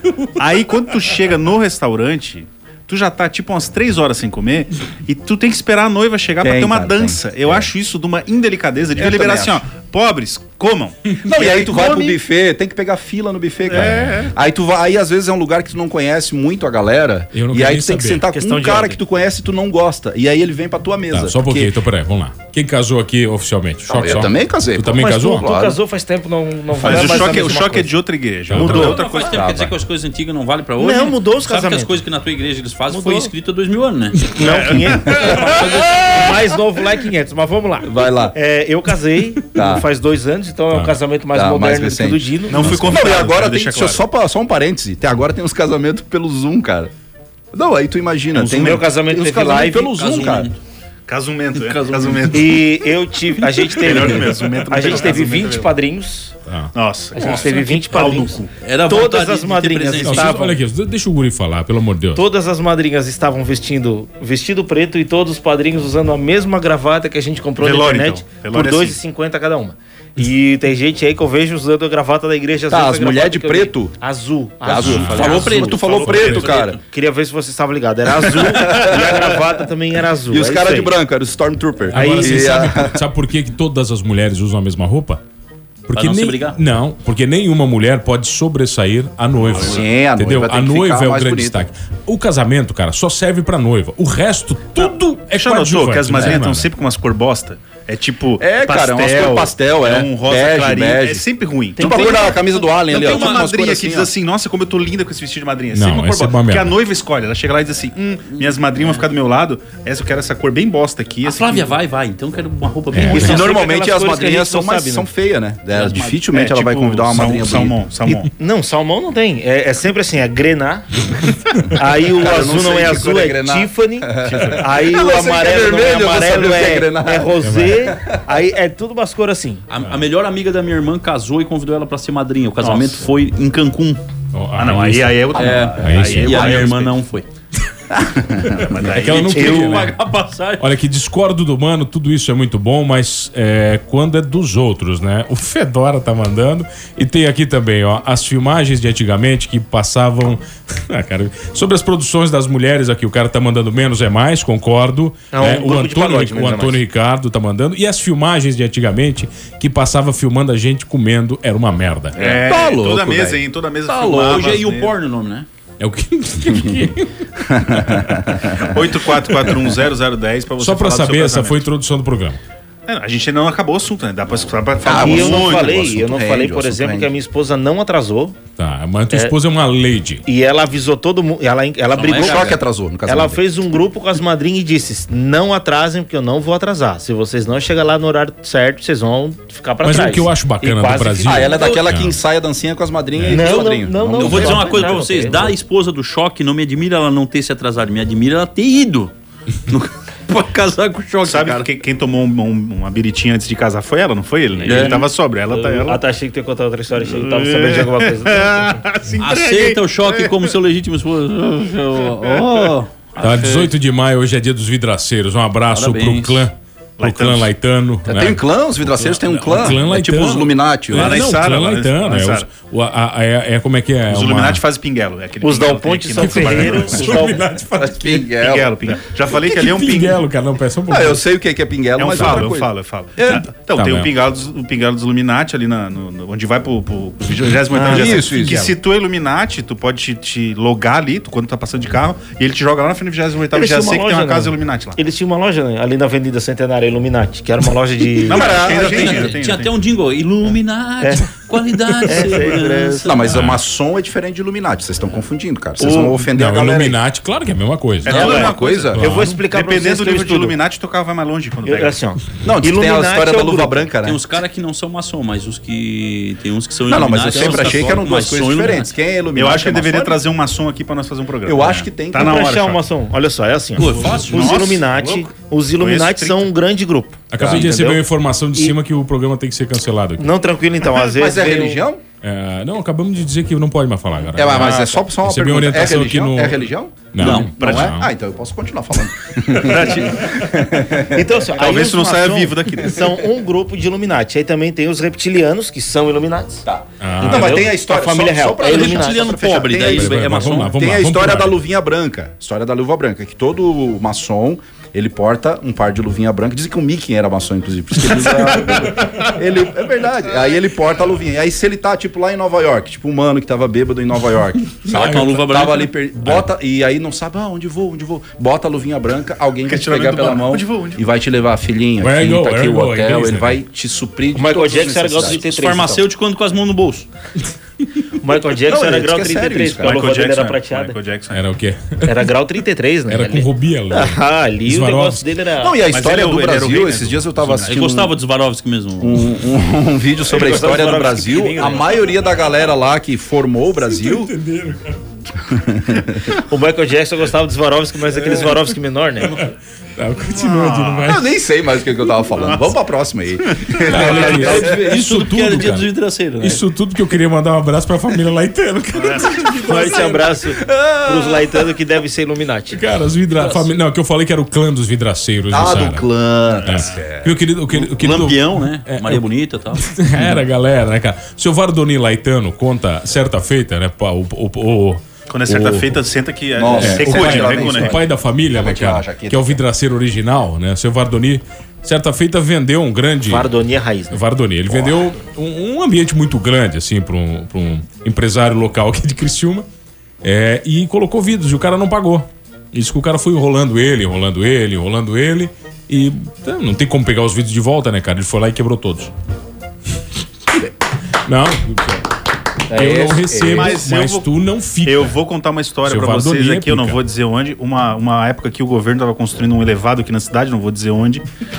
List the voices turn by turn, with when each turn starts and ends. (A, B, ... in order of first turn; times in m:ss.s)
0:00.4-0:12.2 A
0:06.4-0:07.7 B
0:09.0-0:09.6 B
0:11.2-0:21.7 B
0:13.7-0:14.4 A
0:17.3-0:18.2 C
0:18.3-0:19.0 D
0:21.1-0:25.4 C
0:23.9-0:25.8 B
0:24.9-0:28.0 D
0:26.8-0:29.5 A
0:28.5-0:29.0 C
0:28.6-0:28.9 D
0:28.6-0:34.2 E
0:29.3-0:29.7 B
0:30.8-0:32.0 D
0:32.9-0:33.3 D
0:34.3-0:42.8 D
0:34.4-0:35.7 A
0:37.8-0:38.4 B
0:39.6-0:39.8 B
0:40.7-0:41.0 C
0:41.3-0:46.9 B
0:42.5-0:44.0 A
0:42.6-0:43.0 C
0:47.5-0:50.5 B
0:48.4-0:49.9 D
0:48.4-0:48.6 A
0:49.9-0:50.6 E
0:51.1-0:52.7 A
0:51.6-0:52.4 E
0:52.3-0:56.3 D
0:53.8-0:55.7 A
0:56.8-0:58.5 A
0:57.2-1:00.6 D
0:58.6-1:00.4 E
1:00.0-1:02.2 C
1:02.2-1:20.9 D
1:07.6-1:09.0 A
1:12.7-1:14.0 B
1:14.6-1:16.8 B
1:14.8-1:16.8 E
1:16.1-1:16.6 A
1:18.5-1:19.4 B
1:20.3-1:23.0 B
1:21.9-1:25.2 C
1:21.9-1:22.6 D
1:25.9-1:36.7 C
1:25.9-1:26.6 E
1:29.5-1:31.6 B
1:34.8-1:51.8 A
1:38.4-1:41.3 B
1:41.8-1:42.4 D
1:41.8-1:44.1 B
1:42.9-1:43.5 E
1:45.7-1:46.8 C
1:48.3-1:49.1 E
1:51.2-1:53.5 E
1:52.9-1:53.4 C
1:53.1-1:55.1 D
1:53.1-1:58.2 B
1:55.9-1:58.3 A
1:58.4-2:00.9 D
2:01.8-2:09.6 D
2:02.0-2:07.4 B
2:04.2-2:04.6 A
2:07.4-2:07.9 C
2:09.7-2:14.0 E
2:12.6-2:13.1 A
2:14.3-2:15.2 C
2:14.6-2:17.0 A
2:15.4-2:17.3 E
2:15.4-2:16.2 B
2:15.8-2:16.7 C
2:17.9-2:18.8 B
2:18.6-2:19.9 A
2:18.9-2:20.0 C
2:19.0-2:20.7 E
2:19.4-2:19.9 D
2:20.6-2:42.2 C
2:35.3-2:36.8 D
2:42.2-2:42.4 E
2:42.2-2:44.9 A
2:42.2-2:43.4 B
2:43.9-2:45.5 E
2:45.8-2:47.1 C
2:47.5-2:48.8 B
2:47.7-2:48.1 C
2:48.6-2:51.6 A
2:50.6-2:52.4 C
2:52.9-2:55.8 A
2:54.8-2:57.1 B
2:54.9-2:58.4 D
2:58.6-3:00.2 C
3:00.3-3:11.7 D
3:01.9-3:02.6 E
3:02.1-3:03.4 B
3:09.8-3:12.2 C
3:11.2-3:15.0 B
3:11.5-3:11.9 E
3:13.3-3:15.6 D
3:14.2-3:19.1 E
3:19.7-3:21.7 E
3:21.2-3:26.0 A
3:24.6-3:28.8 D
3:24.7-3:25.1 E
3:27.1-3:30.5 A
3:29.2-3:33.7 E
3:32.2-3:32.7 A
3:33.2-3:38.4 C
3:35.7-3:36.5 E
3:37.0-3:37.5 A
3:38.1-3:41.3 B
3:39.4-3:44.6 C
3:40.9-3:42.5 A
3:44.1-3:47.2 A
3:45.4-3:47.5 D
3:46.2-3:48.2 C
3:47.8-3:49.0 B
3:48.2-3:50.2 A
3:49.5-3:51.2 C
3:50.9-3:53.5 B
3:52.0-4:05.0 A
3:52.1-3:52.5 C
3:53.8-3:54.1 C
3:57.7-3:58.3 D
3:57.8-3:58.8 B
4:03.5-4:08.6 D
4:08.3-4:09.7 A
4:08.3-4:09.3 B
4:08.6-4:13.2 E
4:11.0-4:11.3 D
4:12.1-4:13.2 D
4:13.0-4:17.0 B
4:13.3-4:13.6 C
4:15.8-4:16.2 D
4:16.3-4:18.3 C
4:18.0-4:22.0 A
4:18.1-4:19.0 B
4:18.1-4:20.6 D
4:18.9-4:19.4 C
4:21.6-4:23.9 D
4:22.4-4:24.2 B
4:24.0-4:28.9 E
4:26.9-4:30.2 B
4:27.4-4:27.8 A
4:29.4-4:32.8 A
4:31.4-4:32.5 B
4:32.1-4:38.0 D
4:33.8-4:34.8 E
4:34.0-4:36.5 A
4:37.3-4:40.3 C
4:37.4-4:37.8 B
4:40.2-4:41.9 D
4:41.0-4:42.0 B
4:42.2-4:48.1 C
4:44.4-4:51.3 B
4:47.2-4:47.5 E
4:47.2-4:47.9 A
4:49.6-4:50.4 A
4:51.1-4:56.6 D
4:51.5-4:53.2 A
4:56.6-5:25.4 B
4:57.0-4:57.7 C
4:57.2-4:59.3 D
4:58.6-5:00.8 E
4:59.8-5:01.6 C
5:14.9-5:15.9 E
5:14.9-5:15.4 C
5:19.7-5:21.0 A
5:22.0-5:23.6 C
5:24.4-5:26.0 D
5:25.2-5:27.1 E
5:28.2-5:31.0 D
5:28.7-5:30.0 B
5:29.8-5:31.4 A
5:31.3-5:32.2 C
5:32.0-5:35.8 D
5:33.1-5:35.2 C
5:35.6-5:38.2 B
5:35.9-5:37.8 A
5:37.7-5:39.3 E
5:39.0-5:44.3 B
5:40.3-5:42.0 D
5:43.9-5:45.0 C
5:45.5-5:46.3 B
5:46.5-5:49.4 D
5:48.3-5:48.6 C
5:49.3-5:51.3 C
5:50.3-5:51.2 A
5:51.0-5:54.9 B
5:52.3-5:52.8 A
5:53.6-5:54.1 A
5:53.8-5:55.9 C
5:53.9-5:56.6 E
5:56.4-6:00.0 C
5:59.0-5:59.5 A
5:59.6-6:02.8 D
6:00.0-6:01.5 B
6:02.7-6:06.1 C
6:05.5-6:07.4 B
6:06.5-6:07.0 A
6:06.7-6:09.2 C
6:07.7-6:09.9 E
6:09.8-6:16.0 C
6:15.3-6:18.0 A
6:16.6-6:19.6 B
6:16.8-6:23.5 C
6:23.3-6:24.2 D
6:24.1-6:29.7 C
6:30.2-6:39.1 C
6:41.3-6:42.0 C
6:42.7-6:43.8 B
6:42.7-6:45.2 C
6:43.4-6:44.3 A
6:44.8-6:51.2 A
6:45.8-6:47.0 C